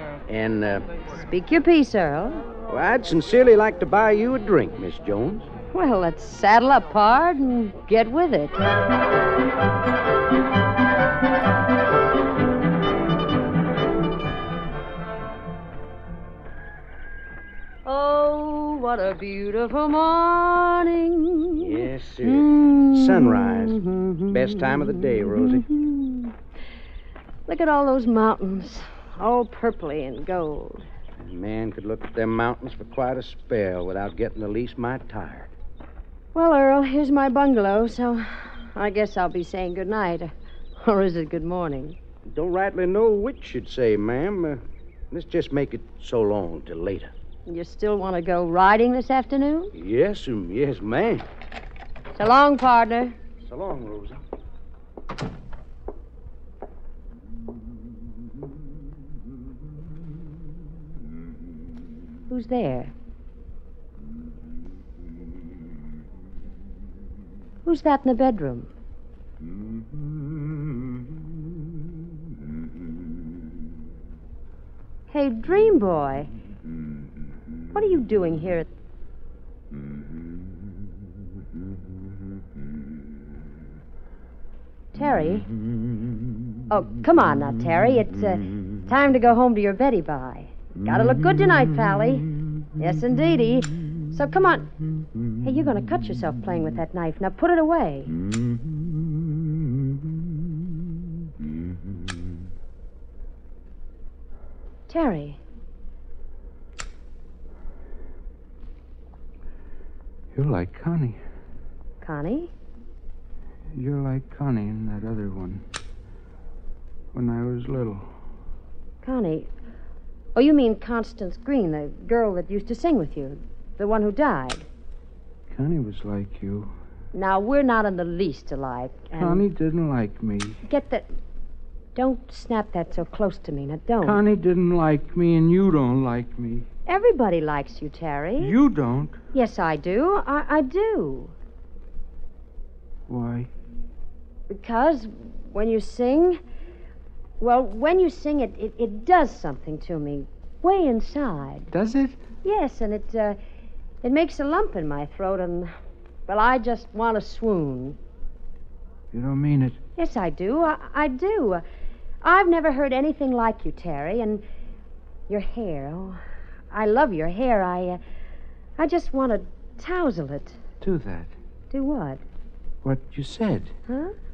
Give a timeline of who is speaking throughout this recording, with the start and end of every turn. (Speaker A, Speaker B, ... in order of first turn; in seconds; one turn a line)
Speaker A: 0.3-0.8
Speaker B: 1.1-2.4
Speaker A: 2.7-5.5
Speaker B: 5.7-8.6
Speaker B: 17.9-26.3
Speaker A: 21.6-25.6
Speaker B: 27.5-30.8
Speaker A: 31.2-35.5
Speaker B: 36.3-42.0
Speaker A: 42.3-47.1
Speaker B: 47.5-49.7
Speaker A: 49.7-51.3
Speaker B: 52.2-53.1
Speaker A: 53.4-54.2
Speaker B: 62.3-62.9
Speaker B: 67.7-68.7
Speaker B: 75.1-76.3
Speaker B: 77.7-78.7
Speaker B: 84.9-85.5
Speaker B: 86.7-94.7
Speaker B: 95.4-98.1
Speaker B: 104.9-105.4
Speaker C: 110.3-111.2
Speaker B: 112.0-112.5
Speaker C: 113.8-115.6
Speaker C: 117.1-118.1
Speaker B: 119.0-119.5
Speaker B: 120.3-124.7
Speaker C: 125.5-126.7
Speaker B: 127.1-129.4
Speaker C: 129.2-130.6
Speaker B: 130.7-131.1
Speaker B: 131.9-134.2
Speaker C: 134.0-136.7
Speaker B: 136.9-138.6
Speaker C: 138.4-139.2
Speaker B: 139.3-141.3
Speaker C: 143.1-143.5
Speaker B: 144.5-146.4
Speaker B: 147.4-151.7
Speaker C: 151.7-152.2
Speaker B: 152.4-153.4
Speaker B: 154.0-155.7
Speaker B: 156.3-158.0
Speaker C: 159.1-159.8
Speaker B: 160.0-161.6
Speaker B: 162.2-164.4
Speaker B: 165.3-166.2
Speaker B: 166.7-168.0
Speaker B: 168.8-170.6
Speaker C: 170.8-171.3
Speaker B: 171.7-172.2
Speaker C: 172.8-173.7
Speaker B: 173.9-174.1